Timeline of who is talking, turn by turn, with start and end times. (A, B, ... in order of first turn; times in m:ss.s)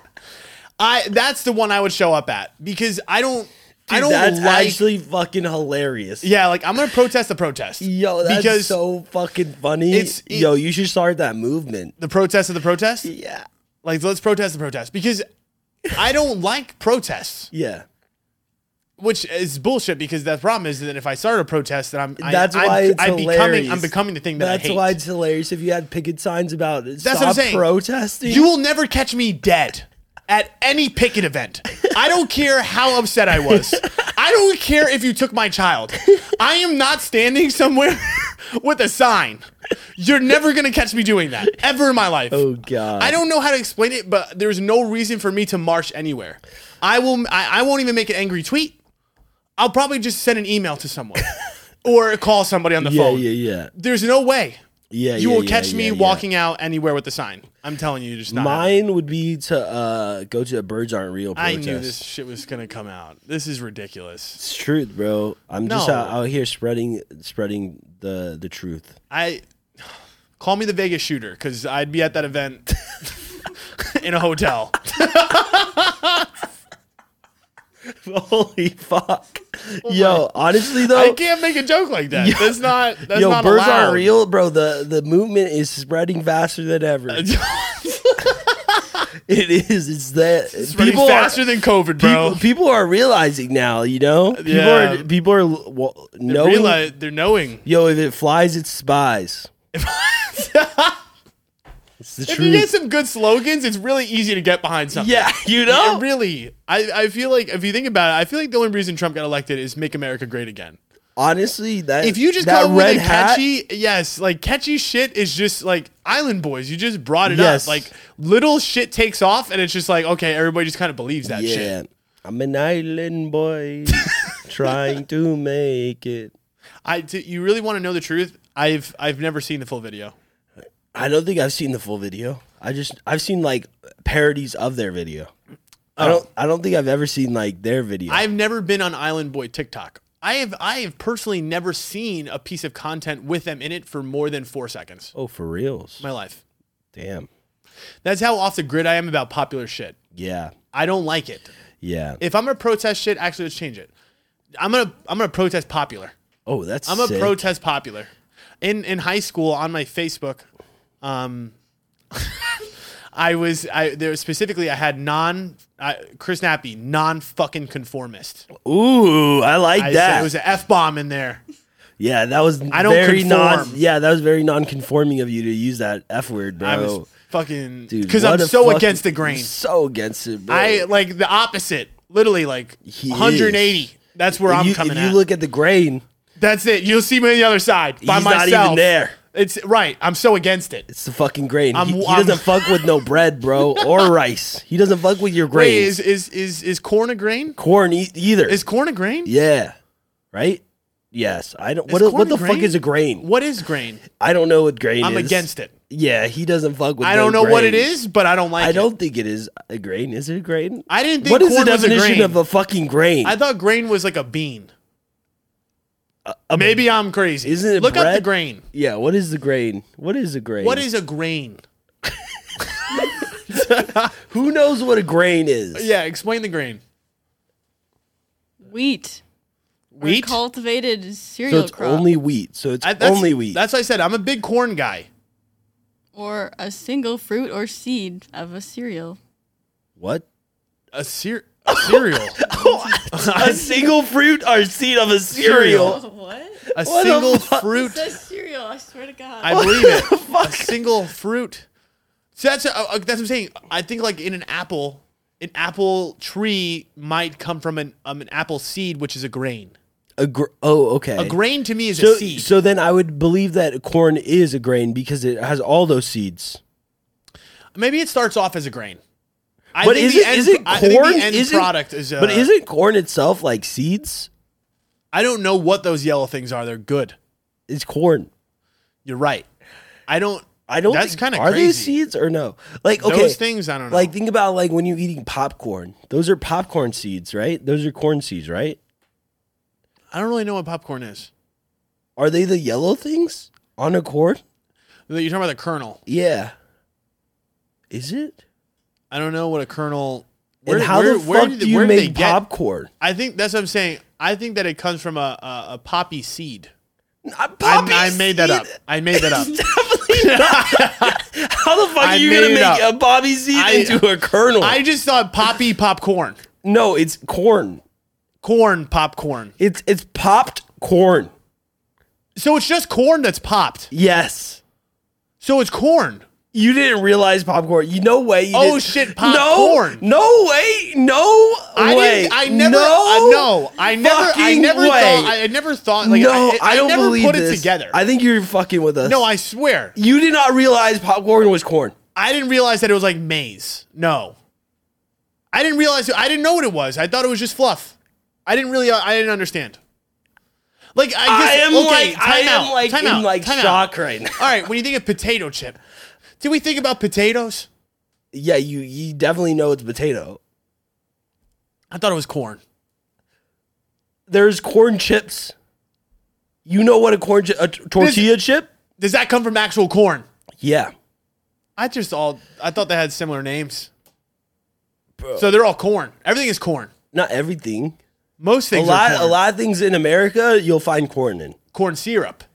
0:00.8-0:04.8 A
0:03.9-0:06.3 B
0:06.2-0:08.8 A
0:07.8-0:11.9 B
0:09.9-0:10.5 A
0:12.0-0:13.1 A
0:13.0-0:13.4 B
0:13.8-0:15.2 A
0:15.9-0:17.5 A
0:17.5-0:17.8 B
0:19.0-0:25.0 A
0:22.2-0:28.5 B
0:27.0-0:27.6 A
0:28.2-0:48.8 A
0:42.3-0:43.2 B
0:49.6-0:51.3 A
0:51.8-0:54.6 A
0:52.8-0:53.7 B
0:54.9-0:56.2 B
0:55.2-0:58.8 A
0:58.3-1:02.0 B
1:01.4-1:04.4 A
1:04.4-1:09.0 B
1:05.6-1:06.1 A
1:09.1-1:12.7 A
1:13.8-1:16.3 A
1:17.9-1:21.2 B
1:19.8-1:20.2 A
1:20.8-1:24.1 A
1:22.1-1:27.3 B
1:27.1-1:29.0 A
1:29.2-1:36.8 B
1:30.5-1:32.4 A
1:34.3-1:35.1 A
1:36.2-1:37.6 A
1:37.6-1:39.5 B
1:39.7-1:41.0 A
1:42.0-1:42.7 B
1:42.2-1:50.8 A
1:44.9-1:46.0 B
1:51.2-1:53.4 B
1:52.0-2:01.7 A
1:57.2-1:57.9 B
2:01.2-2:06.3 B
2:06.8-2:10.1 A
2:10.9-2:15.3 B
2:16.0-2:16.2 A
2:16.0-2:18.3 B
2:18.1-2:25.1 A
2:25.1-2:26.0 B
2:26.0-2:26.4 A
2:26.9-2:27.3 B
2:28.0-2:30.0 A
2:30.1-2:30.5 B
2:30.7-2:31.5 A
2:31.8-2:32.2 B
2:32.2-2:33.9 A
2:34.6-2:36.1 A
2:36.4-2:37.4 B
2:36.9-2:38.1 A
2:38.6-2:40.4 A
2:41.0-2:41.5 A
2:42.1-2:42.6 A
2:43.1-2:48.4 A
2:48.5-2:50.3 B
2:49.8-2:51.4 A
2:52.0-2:57.1 B
2:52.7-2:53.8 A
2:56.6-2:59.5 A
2:57.9-3:00.9 B
3:00.5-3:05.2 A
3:02.8-3:03.9 B
3:04.4-3:06.0 B
3:06.4-3:10.8 A
3:08.0-3:09.2 B
3:10.9-3:16.0 B
3:11.7-3:12.8 A
3:13.6-3:14.0 A
3:15.5-3:17.6 A
3:17.6-3:18.6 B
3:18.5-3:19.3 A
3:19.2-3:19.7 B
3:20.3-3:23.3 B
3:21.9-3:24.0 A
3:24.1-3:27.9 B
3:25.0-3:25.7 A
3:27.0-3:28.9 A
3:28.6-3:33.4 B
3:30.9-3:32.4 A
3:33.2-3:34.7 A
3:36.2-3:36.8 B
3:36.5-3:38.6 A
3:37.4-3:40.8 B
3:40.6-3:41.6 A
3:42.6-3:44.1 A
3:43.5-3:45.9 B
3:45.7-3:46.8 A
3:48.6-3:49.2 C
3:49.9-3:50.4 A
3:50.0-3:52.1 C
3:51.5-3:53.6 B
3:52.8-3:55.1 A
3:56.1-3:59.2 C
4:00.0-4:00.2 B
4:00.9-4:02.4 A
4:01.7-4:06.0 B
4:02.4-4:03.9 C
4:03.1-4:03.6 A
4:05.3-4:06.0 A
4:05.8-4:06.6 C
4:06.6-4:07.9 B
4:06.7-4:08.1 A
4:07.7-4:09.9 C
4:09.4-4:11.6 A
4:09.5-4:10.8 B
4:12.4-4:19.7 A
4:20.2-4:21.4 B
4:21.2-4:22.5 A
4:21.9-4:26.6 B
4:27.7-4:29.0 A
4:29.7-4:32.5 A
4:29.8-4:34.3 B
4:35.1-4:37.2 A
4:37.7-4:38.3 B
4:39.0-4:39.5 A
4:40.1-4:41.9 A
4:40.7-4:48.8 B
4:43.0-4:44.1 A
4:50.1-4:51.3 A
4:52.2-4:54.4 B
4:55.1-4:56.0 A
4:56.1-4:56.5 B
4:57.9-4:58.4 B
4:59.1-5:02.4 A
5:00.6-5:02.9 B
5:03.0-5:06.7 A
5:07.2-5:14.8 B
5:07.6-5:09.5 A
5:10.1-5:11.2 A
5:12.0-5:12.8 A
5:13.5-5:14.0 A
5:14.6-5:16.4 A
5:16.6-5:17.8 B
5:18.4-5:19.5 A
5:19.6-5:21.3 B
5:22.4-5:23.9 A
5:23.9-5:24.6 B
5:25.4-5:26.2 A
5:26.5-5:35.5 B
5:28.5-5:30.0 A
5:31.7-5:38.0 A
5:36.0-5:39.2 B
5:39.0-5:40.0 A
5:40.0-5:42.0 B
5:42.1-5:44.4 A
5:45.5-5:47.9 A
5:48.4-5:49.8 A
5:51.0-5:55.8 A
5:51.2-5:54.5 B
5:56.4-5:57.7 A
5:58.3-6:00.4 B
6:01.9-6:02.6 A
6:04.3-6:05.5 B
6:06.6-6:08.7 B
6:08.0-6:08.3 A
6:09.0-6:10.2 A
6:10.6-6:10.9 B
6:11.8-6:13.9 A
6:15.2-6:15.5 B
6:15.4-6:16.9 A
6:17.1-6:18.0 B
6:18.4-6:19.4 A
6:18.7-6:21.6 B
6:21.7-6:22.4 A